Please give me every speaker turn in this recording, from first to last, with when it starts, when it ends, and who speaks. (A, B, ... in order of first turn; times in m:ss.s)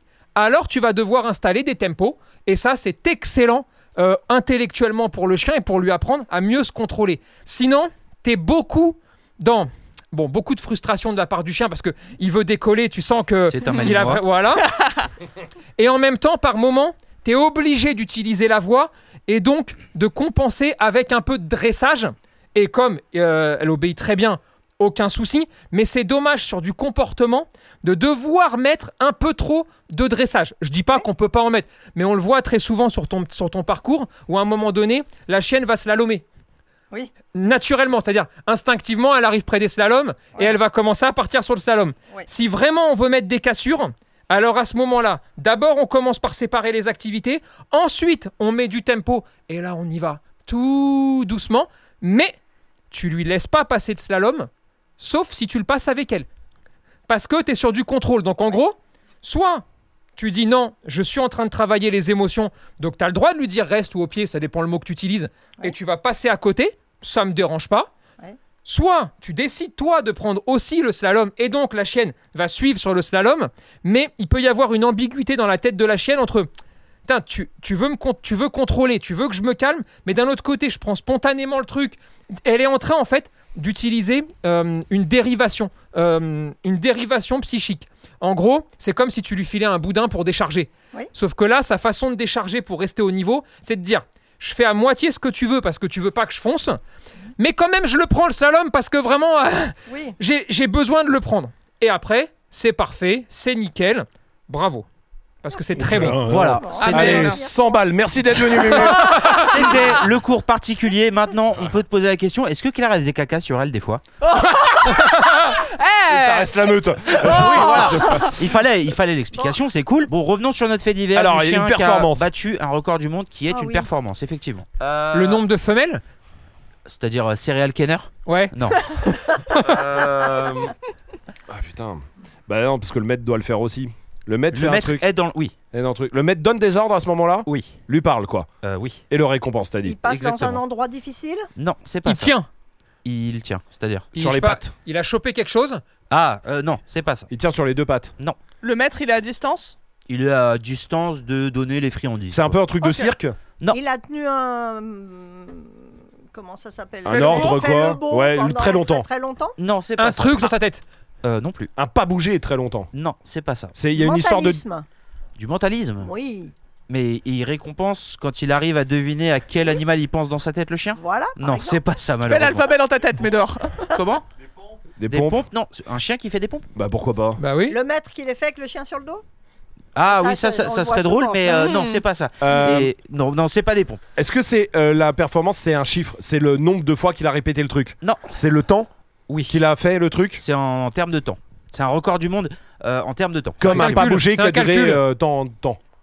0:00.3-0:14.7 A
0:13.4-0:14.2 B
0:14.8-0:15.1 C
0:15.8-0:36.2 A
0:37.3-0:52.4 A
0:52.9-0:56.3 A
0:57.1-0:59.6 A
1:00.2-1:07.9 A
1:08.6-1:16.5 A
1:17.1-1:36.8 A
1:37.4-1:44.8 A
1:39.9-1:40.2 D
1:45.4-1:46.3 A
1:45.7-1:49.6 E
1:46.2-1:47.4 B
1:46.4-1:47.7 D
1:46.8-1:47.4 C
1:48.7-1:50.0 C
1:49.2-1:54.0 B
1:54.2-1:56.5 C
1:56.1-1:58.3 E
1:57.1-1:58.4 C
1:57.2-2:04.7 B
1:59.3-1:59.6 D
2:01.1-2:02.3 E
2:03.5-2:03.9 D
2:04.8-2:05.4 E
2:05.1-2:06.0 A
2:06.8-2:08.8 B
2:08.2-2:09.8 A
2:09.6-2:10.7 E
2:11.5-2:15.0 E
2:14.5-2:15.6 B
2:15.7-2:18.5 E
2:17.4-2:17.8 B
2:18.6-2:19.0 B
2:19.1-2:20.0 E
2:19.8-2:21.5 D
2:20.0-2:20.6 B
2:21.6-2:22.3 B
2:22.0-2:22.4 A
2:23.0-2:24.1 B
2:24.1-2:25.8 A
2:24.2-2:24.7 E
2:26.1-2:27.3 B
2:27.3-2:28.1 E
2:28.6-2:29.7 C
2:30.1-2:32.5 B
2:32.3-2:33.4 E
2:32.8-2:33.1 C
2:33.7-2:35.8 D
2:36.3-2:39.6 D
2:37.0-2:39.1 E
2:37.0-2:37.7 C
2:39.6-2:40.5 B
2:40.0-2:40.8 A
2:41.2-2:41.7 B
2:41.8-2:42.9 E
2:42.9-2:43.7 B
2:43.7-2:44.6 E
2:43.9-2:44.9 D
2:45.4-2:46.1 B
2:46.0-2:46.5 D
2:46.9-2:52.7 B
2:51.0-2:51.9 D
2:52.2-2:53.9 C
2:53.9-2:54.2 B
2:55.0-2:55.4 E
2:55.1-2:56.7 B
2:56.7-2:57.4 E
2:57.4-2:57.8 A
2:57.7-2:59.2 D
2:59.9-3:04.0 B
3:00.0-3:01.8 D
3:01.5-3:02.0 C
3:02.4-3:02.9 E
3:04.2-3:08.9 E
3:08.0-3:08.3 B
3:09.3-3:09.5 B
3:09.5-3:10.4 E
3:10.4-3:14.2 B
3:13.6-3:15.8 E
3:13.6-3:15.0 A